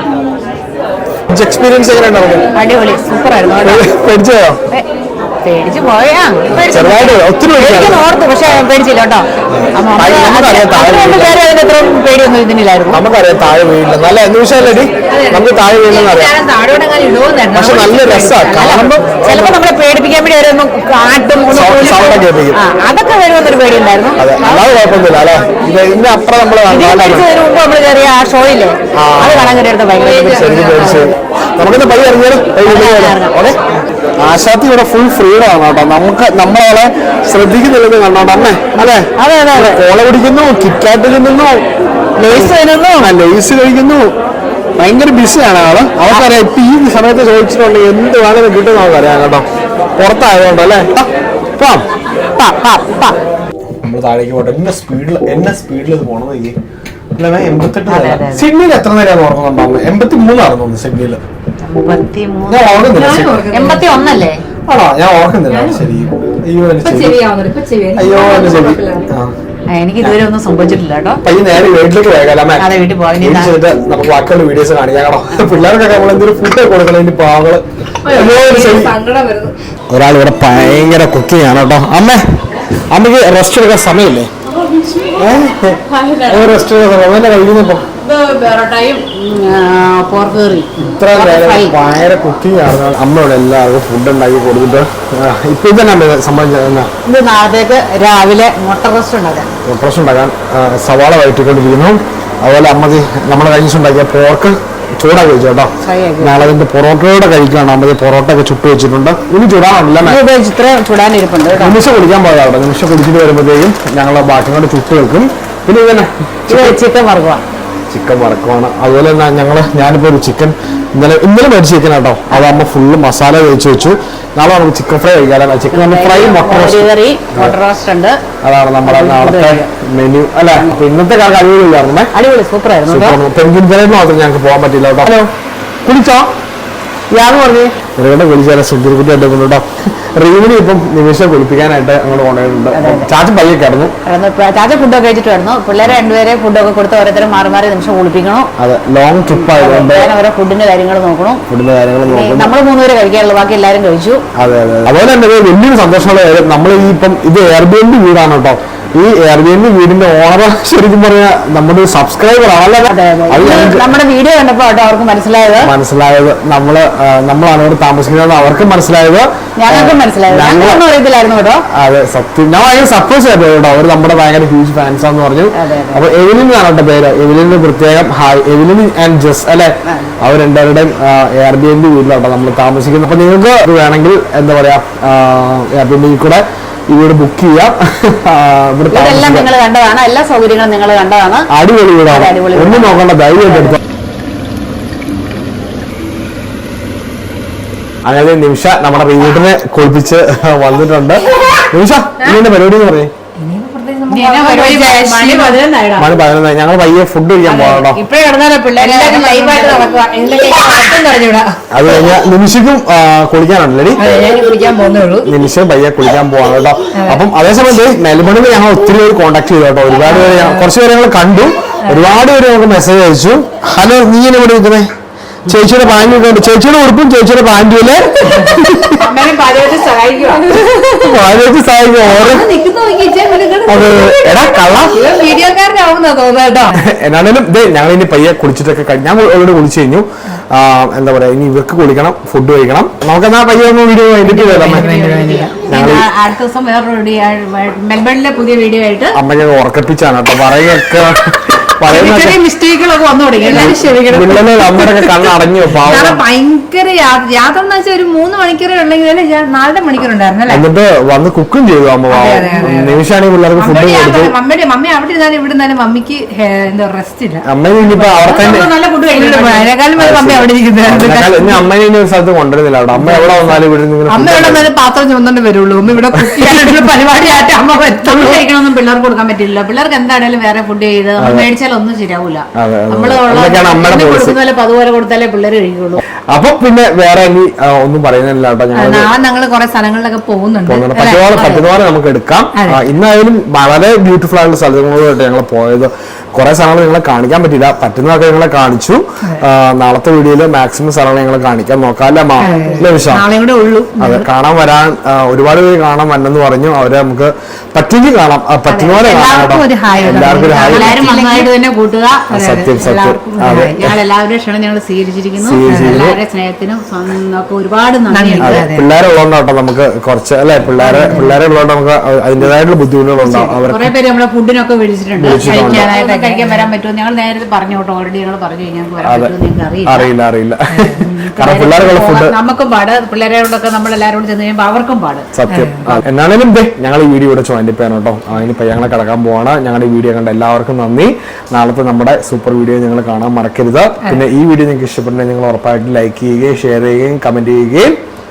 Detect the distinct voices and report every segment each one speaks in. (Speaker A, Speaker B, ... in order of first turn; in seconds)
Speaker A: 1.3-2.5, 3.6-4.6, 6.5-8.0, 9.5-11.4, 12.9-16.3, 17.5-19.6, 21.5-22.6, 24.2-27.3, 28.9-33.6, 34.2-41.6, 42.3-44.1, 44.8-49.5, 50.0-51.8, 53.8-56.6, 57.1-61.2, 62.5-63.5, 64.7-67.2, 68.0-69.3, 71.2-78.9, 79.9-82.4, 82.9-84.3, 85.2-87.9, 90.8-96.9, 99.6-110.2, 111.5-116.8, 117.9-127.6, 128.4-132.1, 132.9-135.3, 135.8-136.3, 137.9-143.9, 148.6-150.1, 151.5-152.5, 154.3-163.9, 165.6-170.8, 171.7-189.5, 191.5-193.8, 198.0-203.1, 206.0-208.0, 211.7-214.0, 215.2-224.9, 225.4-229.0, 230.9-232.5, 233.7-235.0, 236.8-244.9, 245.7-246.1, 249.1-252.4, 253.5-256.2, 260.5-264.3, 267.4-268.7, 269.9-274.7, 281.2-281.5, 282.5-284.4, 286.3-289.1, 290.6-303.2, 304.0-311.0, 312.3-313.9, 315.4-316.2, 318.4-323.9, 325.2-325.9, 329.0-332.4, 335.3-348.0
Speaker B: 2.5-3.8, 5.4-13.0, 18.6-24.6, 26.7-31.1, 32.6-33.5, 39.1-39.8, 42.2-43.1, 52.4-53.2, 57.9-58.5, 61.6-64.4, 69.7-71.2, 72.6-73.6, 84.6-86.5, 88.0-91.8, 97.0-99.5, 105.8-106.5, 110.0-111.8, 116.5-117.4, 125.7-128.2, 128.8-129.7, 132.1-133.2, 137.1-137.7, 142.7-143.1, 144.0-148.5, 149.3-151.4, 152.0-154.2, 162.9-165.7, 169.6-171.6, 175.5-176.0, 179.8-180.1, 188.9-191.5, 192.1-193.8, 204.1-206.1, 207.4-210.3, 229.0-230.7, 244.3-249.2, 251.8-255.1, 267.9-269.7, 276.4-286.0, 290.9-291.6, 302.5-302.8, 309.1-318.7, 320.8-321.3, 323.2-330.1, 331.0-335.3
Speaker C: 15.1-18.9, 62.9-63.9, 65.5-65.8, 66.8-69.1, 78.0-79.5, 203.4-205.6, 208.8-211.6, 214.0-215.3, 216.9-217.2, 229.2-230.8, 232.1-236.8, 244.4-245.6, 253.4-254.0, 255.9-260.6, 262.1-263.0, 263.6-267.4, 269.1-271.6, 274.1-278.4, 288.7-291.4, 292.5-292.8, 302.4-304.3, 308.7-311.5, 312.3-312.7, 313.4-313.8, 315.6-315.9, 318.1-318.9, 325.3-326.7, 335.5-335.9